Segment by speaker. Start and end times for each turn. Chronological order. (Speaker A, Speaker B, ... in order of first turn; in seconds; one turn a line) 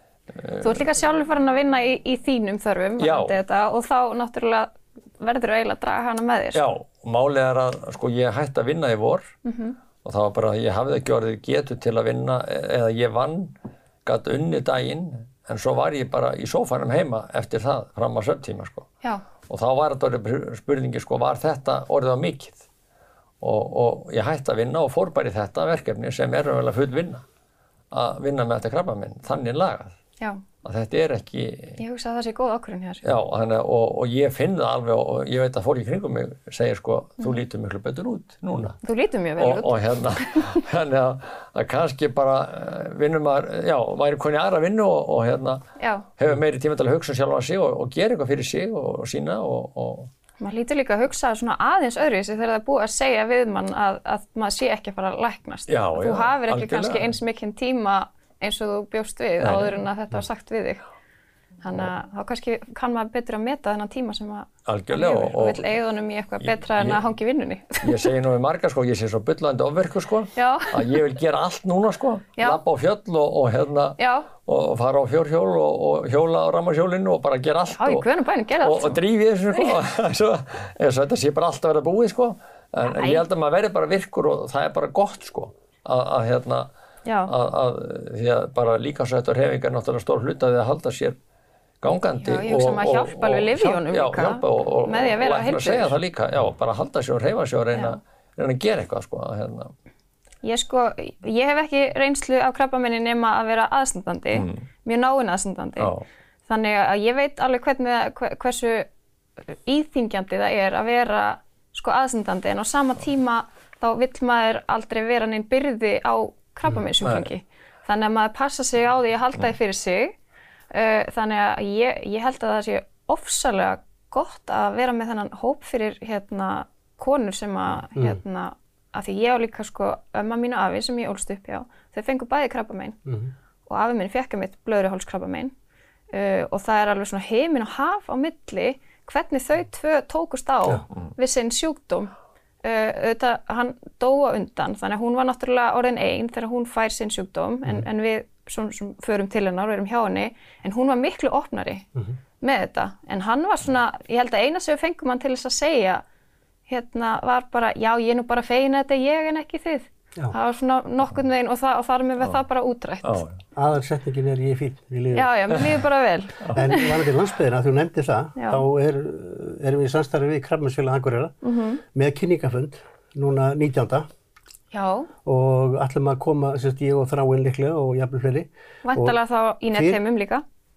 Speaker A: 0.3-0.8
Speaker B: 0.6-6.6
Speaker A: 3.0-3.4
Speaker A: 6.5-9.3
Speaker B: 9.4-9.8
Speaker A: 10.0-18.9
Speaker A: 19.5-22.6
Speaker A: 23.4-27.2
Speaker A: 27.9-29.9
Speaker A: 30.6-31.8
Speaker B: 31.8-33.0
Speaker A: 33.0-38.8
Speaker B: 38.8-40.5
Speaker A: 39.4-45.6
Speaker B: 45.8-46.1
Speaker A: 46.2-50.1
Speaker B: 50.4-60.8
Speaker A: 55.7-57.1
Speaker A: 59.4-59.8
Speaker B: 61.6-68.1
Speaker A: 64.7-65.6
Speaker A: 66.4-67.0
Speaker A: 67.8-78.0
Speaker B: 70.3-71.0
Speaker B: 74.0-74.3
Speaker B: 77.7-79.0
Speaker A: 78.6-86.7
Speaker B: 82.8-83.2
Speaker B: 87.0-87.3
Speaker A: 87.3-91.2
Speaker A: 91.8-99.7
Speaker B: 92.2-95.9
Speaker B: 97.7-98.0
Speaker B: 100.4-105.9
Speaker A: 104.3-104.6
Speaker A: 105.8-106.0
Speaker B: 106.5-108.9
Speaker B: 109.5-120.1
Speaker A: 116.7-117.3
Speaker B: 120.7-132.9
Speaker C: 133.1-133.3
Speaker B: 133.7-135.5
Speaker B: 136.1-142.1
Speaker B: 142.6-151.8
Speaker B: 152.4-156.0
Speaker B: 156.7-163.2
Speaker A: 163.0-163.4
Speaker C: 163.6-165.3
Speaker B: 165.1-167.0
Speaker C: 166.5-174.1
Speaker B: 168.4-168.6
Speaker B: 171.4-171.8
Speaker B: 174.7-175.1
Speaker C: 175.2-179.1
Speaker B: 178.8-180.4
Speaker C: 179.7-180.0